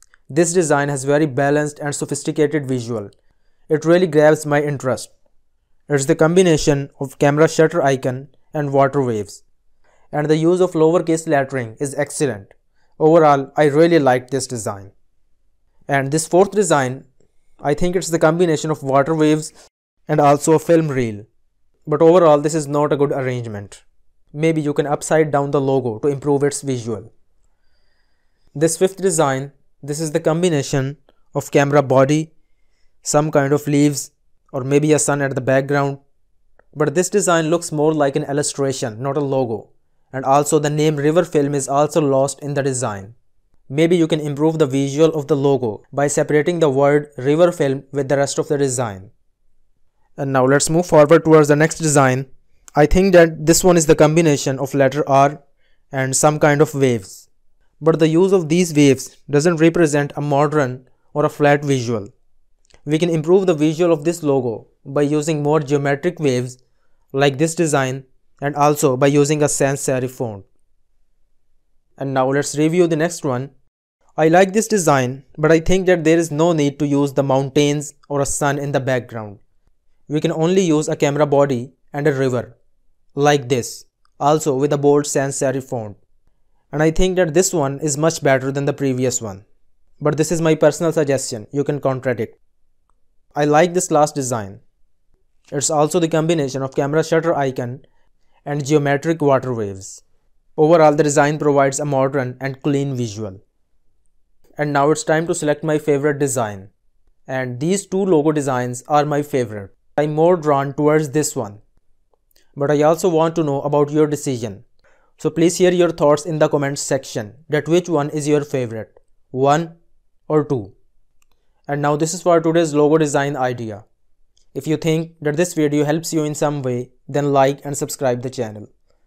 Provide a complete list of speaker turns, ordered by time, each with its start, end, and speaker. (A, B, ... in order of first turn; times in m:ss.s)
0:00.3-0:03.1 A
0:03.7-0:05.1 A
0:05.9-0:09.4 A
0:10.1-0:14.9 A
0:15.9-0:17.1 A
0:17.6-0:19.5 A
0:20.1-0:21.3 A
0:21.9-0:23.8 A
0:24.3-0:27.1 A
0:28.6-0:32.3 A
0:33.0-0:36.0 A
0:36.8-0:43.2 A
0:43.7-0:49.1 A
0:50.2-0:55.4 A
0:55.9-0:57.3 A
0:57.8-1:02.1 A
1:02.8-1:06.6 A
1:07.1-1:10.5 A
1:12.0-1:13.5 A
1:14.2-1:19.4 A
1:20.1-1:22.6 A
1:23.2-1:26.0 A
1:26.7-1:29.4 A
1:30.0-1:32.4 A
1:33.4-1:34.6 A
1:35.5-1:37.8 A
1:38.4-1:40.0 A
1:40.6-1:43.4 A
1:44.6-1:46.7 A
1:47.3-1:51.6 A
1:52.6-1:54.6 A
1:55.2-1:59.8 A
2:00.3-2:00.7 A
2:01.7-2:03.8 A
2:04.5-2:08.7 A